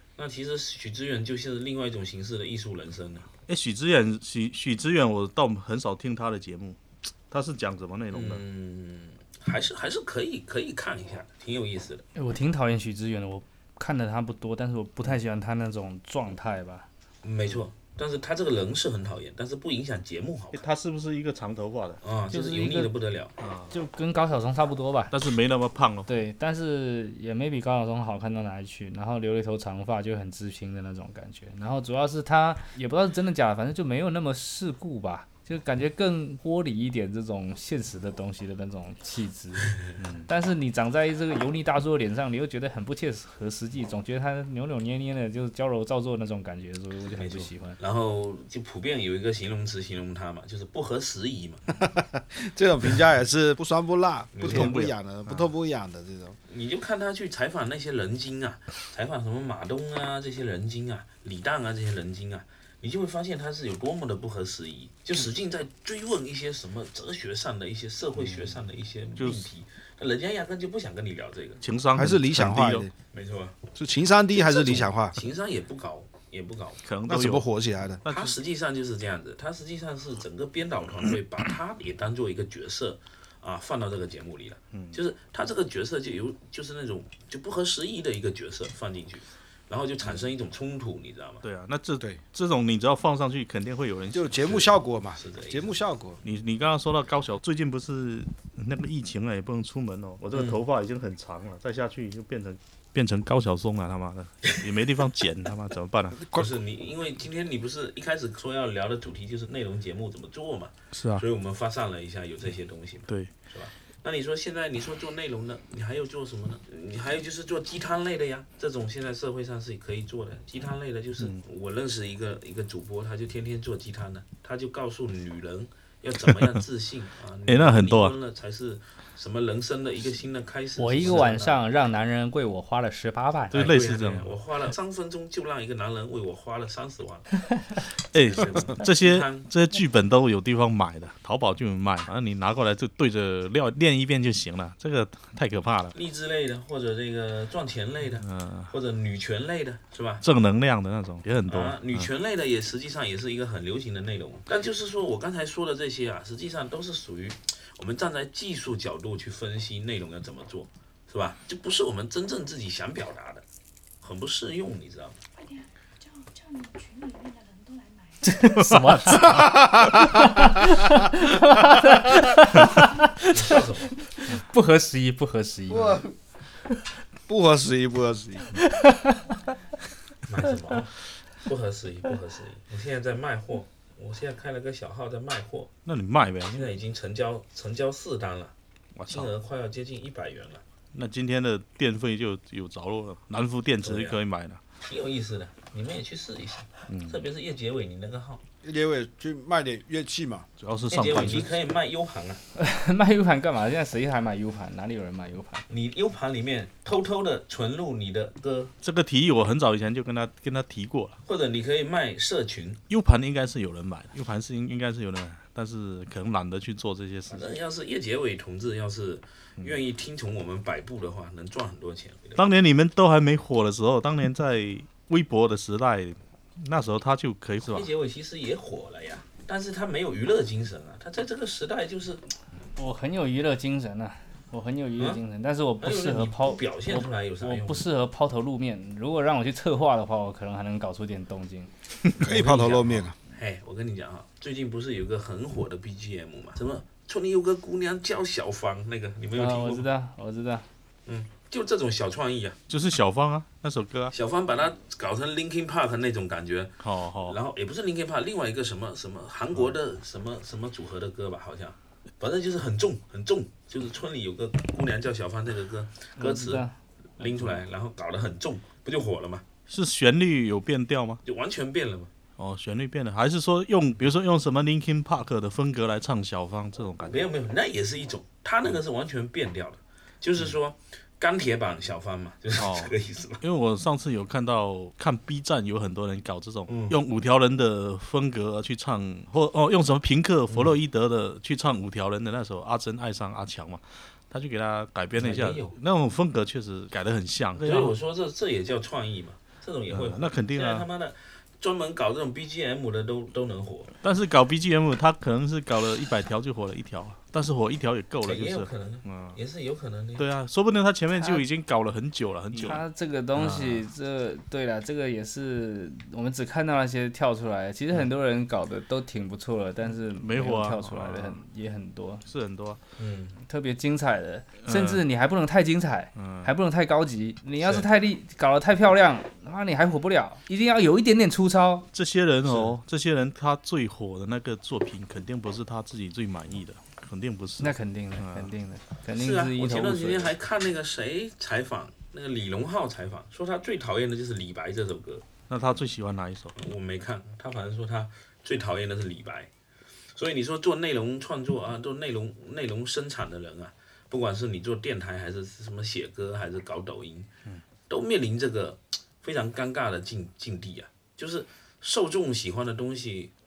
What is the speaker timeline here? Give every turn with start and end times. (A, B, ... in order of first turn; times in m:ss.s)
0:00.2-0:03.3 A
0:03.5-0:06.8 B
0:07.3-0:08.4 B
0:08.1-0:12.0 A
0:12.2-0:16.9 C
0:17.2-0:20.6 A
0:20.5-0:22.0 B
0:22.0-0:23.3 A
0:22.3-0:22.9 C
0:23.4-0:23.7 B
0:23.7-0:25.2 C
0:25.1-0:26.1 B
0:26.1-0:39.8 C
0:40.0-0:40.3 B
0:40.3-0:47.8 C
0:47.1-0:51.6 A
0:51.7-0:56.4 D
0:54.3-0:54.8 A
0:54.4-0:55.5 B
0:56.5-1:11.6 A
1:08.2-1:08.6 B
1:09.2-1:09.5 B
1:11.6-1:12.9 B
1:11.9-1:12.9 D
1:13.1-1:13.6 A
1:13.8-1:15.2 D
1:14.3-1:16.8 A
1:16.8-1:17.5 B
1:17.1-1:18.0 D
1:18.0-1:18.4 B
1:18.1-1:31.4 A
1:24.7-1:25.0 B
1:31.4-1:34.7 B
1:34.1-1:36.2 D
1:35.2-1:35.8 A
1:36.2-1:46.2 B
1:46.2-1:46.5 D
1:46.3-2:11.6 A
1:50.9-1:51.2 B
2:06.2-2:06.6 B
2:07.5-2:08.2 B
2:10.8-2:13.6 C
2:13.5-2:14.3 B
2:13.5-2:17.3 A
2:18.1-2:26.0 B
2:18.2-2:19.5 A
2:25.9-2:30.2 A
2:28.2-2:28.7 B
2:30.2-2:32.1 B
2:31.5-2:43.4 A
2:44.0-2:45.2 A
2:45.4-2:48.6 E
2:48.2-2:56.0 C
2:48.6-2:49.2 B
2:49.3-2:50.2 D
2:53.3-2:54.0 A
2:55.7-2:56.1 D
2:57.3-2:58.6 D
2:58.6-2:59.3 C
3:00.3-3:05.7 A
3:05.8-3:06.7 B
3:06.5-3:08.5 A
3:09.0-3:09.3 B
3:09.1-3:10.6 A
3:10.9-3:14.6 B
3:13.8-3:14.2 A
3:14.8-3:18.4 A
3:16.9-3:17.2 B
3:18.6-3:20.5 D
3:20.6-3:21.6 B
3:20.9-3:22.4 A
3:22.6-3:25.6 C
3:25.7-3:28.7 A
3:28.8-3:31.2 B
3:31.3-3:32.8 A
3:32.9-3:37.5 B
3:37.3-3:42.4 A
3:42.4-3:47.9 B
3:47.7-3:52.2 A
3:52.8-4:01.7 C
3:55.8-3:57.9 A
4:02.1-4:03.1 D
4:02.2-4:09.9 A
4:09.4-4:10.7 C
4:11.1-4:12.6 A
4:12.7-4:14.1 B
4:14.1-4:26.6 A
4:16.8-4:17.4 B
4:26.2-4:26.8 C
4:27.2-4:29.4 A
4:29.7-4:31.2 B
4:31.2-4:32.1 A
4:32.4-4:37.3 B
4:37.0-4:43.4 A
4:42.6-4:58.0 B
4:46.7-4:47.0 A
4:50.5-4:50.8 A
4:55.2-4:55.8 A
4:57.6-5:04.0 A
4:59.9-5:00.9 B
5:04.0-5:09.4 B
5:08.2-5:10.3 A
5:10.2-5:12.8 B
5:11.2-5:11.4 C
5:12.6-5:22.2 C
5:13.4-5:13.8 B
5:20.1-5:21.4 B
5:22.3-5:22.8 B
5:23.0-5:23.4 A
5:23.4-5:31.9 C
5:24.6-5:25.0 B
5:26.2-5:26.5 B
5:31.9-5:38.5 B
5:32.5-5:32.8 A
5:37.6-5:40.3 C
5:39.2-5:45.3 A
5:45.5-5:46.5 B
5:46.6-5:49.5 A
5:50.1-5:57.3 A
5:57.9-6:03.3 A